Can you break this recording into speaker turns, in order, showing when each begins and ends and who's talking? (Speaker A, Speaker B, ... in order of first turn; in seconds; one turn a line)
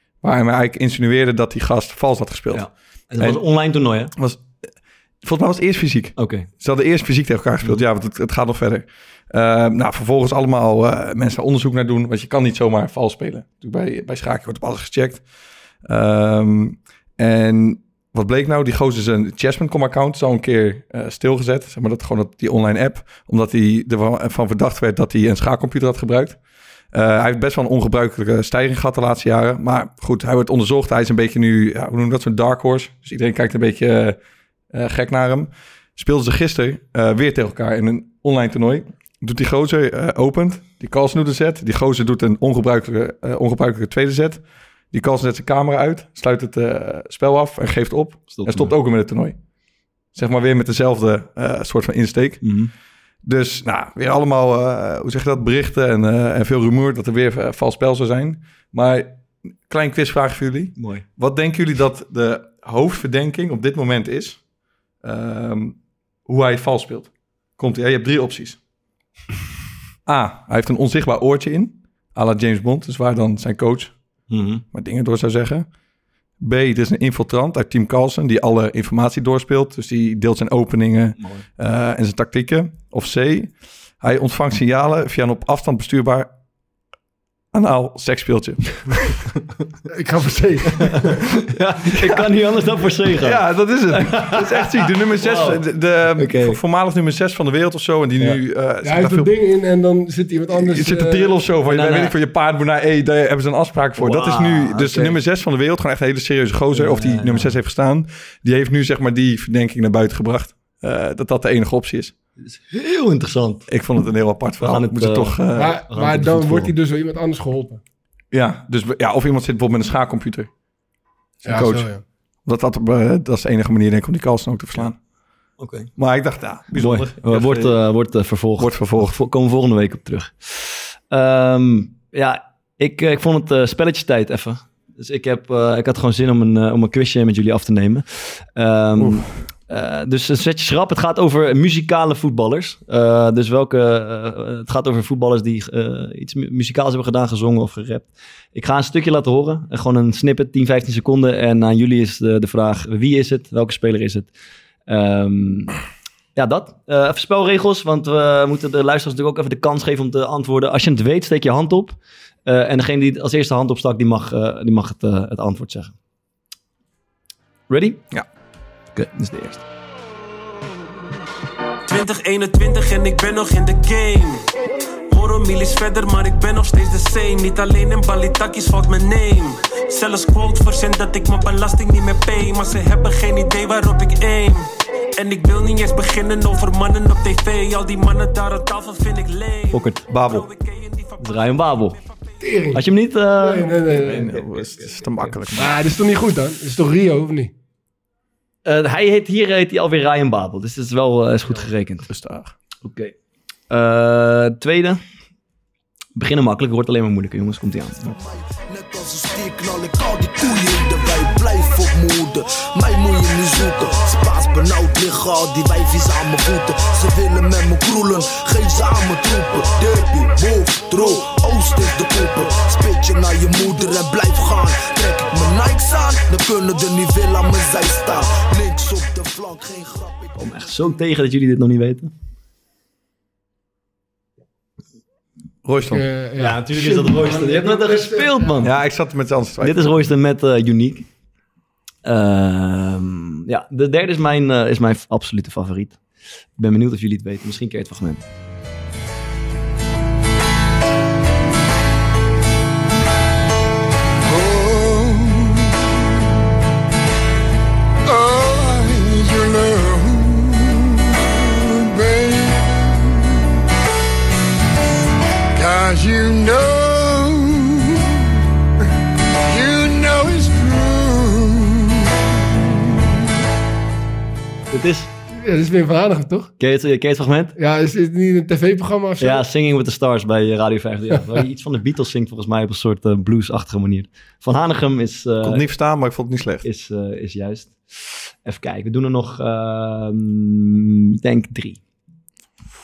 Speaker A: 0.2-2.7
Speaker B: 2.5-4.1
Speaker A: 4.1-4.7
Speaker A: 5.2-15.2
Speaker B: 6.2-6.5
Speaker A: 15.8-26.4
Speaker A: 26.9-34.2
Speaker A: 34.7-49.4
Speaker B: 48.3-48.7
Speaker A: 50.1-52.5
Speaker B: 52.4-52.7
Speaker A: 53.2-64.4
Speaker B: 60.8-61.0
Speaker A: 65.0-68.6
Speaker A: 70.0-73.9
Speaker B: 74.3-74.6
Speaker A: 74.7-75.7
Speaker A: 76.4-86.3
Speaker B: 81.2-81.4
Speaker A: 87.5-89.2
Speaker C: 89.9-91.2
Speaker B: 91.5-95.6
Speaker A: 93.2-99.3
Speaker B: 96.2-96.6
Speaker C: 98.8-101.3
Speaker A: 100.5-112.1
Speaker B: 101.7-102.1
Speaker B: 104.0-105.2
Speaker B: 106.7-107.5
Speaker B: 112.4-113.7
Speaker A: 113.7-115.8
Speaker B: 114.6-116.7
Speaker C: 115.5-117.8
Speaker A: 118.3-120.5
Speaker A: 121.4-121.9
Speaker C: 121.5-122.0
Speaker A: 122.4-125.0
Speaker B: 125.6-125.9
Speaker A: 126.0-127.7
Speaker B: 126.8-154.3
Speaker A: 128.6-129.1
Speaker A: 139.0-139.3
Speaker B: 154.9-155.7
Speaker B: 156.3-165.9
Speaker B: 167.7-168.0
Speaker B: 168.9-169.6
Speaker D: 171.9-174.4
Speaker D: 175.1-184.6
Speaker D: 185.2-192.0
Speaker B: 189.7-190.1
Speaker A: 190.1-190.5
Speaker B: 191.2-192.0
Speaker C: 192.4-192.8
Speaker B: 192.7-193.7
Speaker C: 193.3-194.4
Speaker A: 193.9-195.8
Speaker B: 195.0-195.4
Speaker C: 195.5-197.5
Speaker B: 198.6-202.1
Speaker A: 202.1-202.5
Speaker B: 202.8-203.1
Speaker B: 203.7-205.0
Speaker B: 206.2-208.0
Speaker E: 208.1-230.4
Speaker B: 230.4-232.1
Speaker A: 235.6-236.0
Speaker C: 235.9-238.5
Speaker B: 236.4-238.7
Speaker A: 238.6-240.0
Speaker B: 239.6-241.1
Speaker B: 242.0-246.0
Speaker B: 246.6-248.2
Speaker E: 254.4-255.3
Speaker E: 258.1-260.4
Speaker E: 261.6-262.5
Speaker E: 265.6-267.4
Speaker E: 269.5-270.8
Speaker B: 274.7-275.1
Speaker C: 275.4-276.5
Speaker B: 276.6-277.5
Speaker C: 277.6-279.4
Speaker B: 279.2-285.6
Speaker A: 285.4-286.6
Speaker B: 286.6-287.9
Speaker B: 288.4-291.8